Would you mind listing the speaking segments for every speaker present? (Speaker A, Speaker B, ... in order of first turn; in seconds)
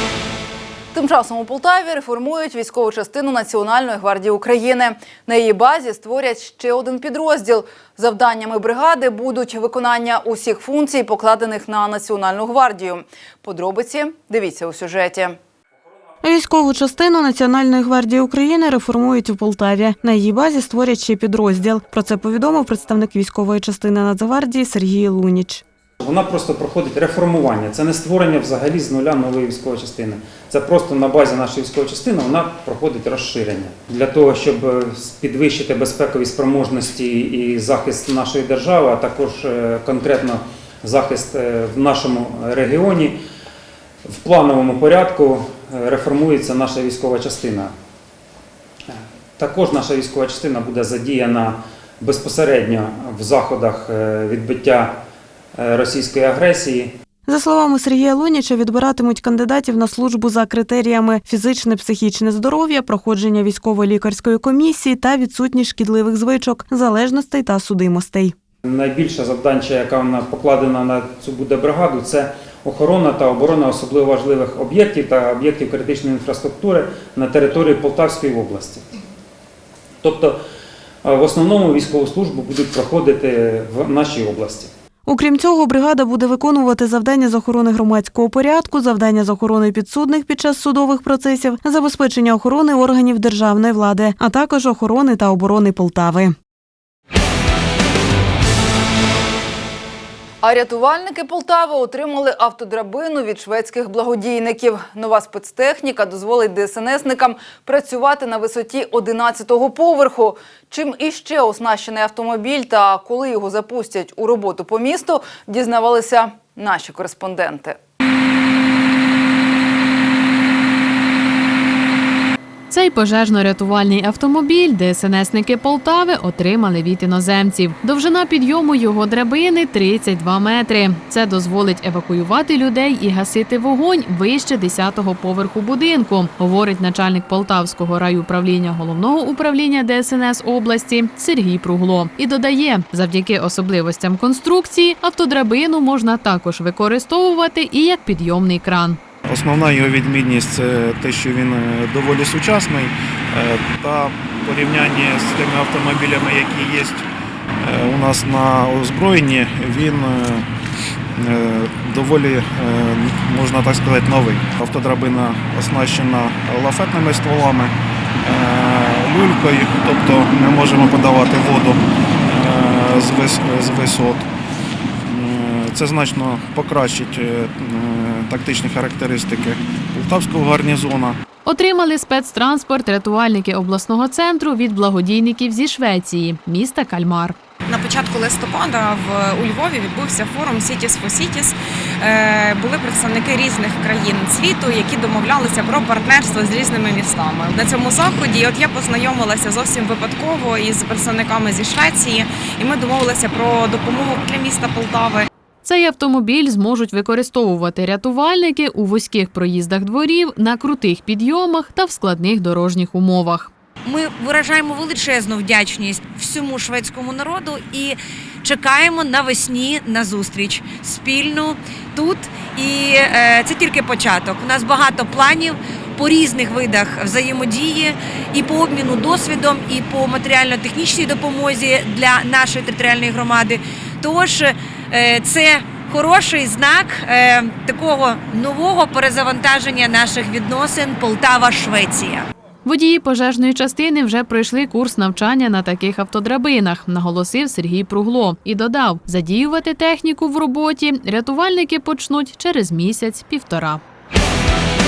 Speaker A: 0.9-15.4, 100.4-117.8
Speaker B: 16.2-25.6, 57.3-68.3, 85.0-96.3
Speaker C: 26.0-43.1, 44.1-47.7, 48.9-54.9, 55.5-56.9, 68.7-78.8, 80.0-80.4, 81.0-84.7
Speaker D: 122.7-149.0, 181.4-187.3, 205.6-213.5, 242.6-253.8
Speaker E: 149.3-157.1, 157.6-160.4, 161.2-174.3, 175.1-181.2
Speaker F: 187.7-205.3
Speaker G: 213.8-242.3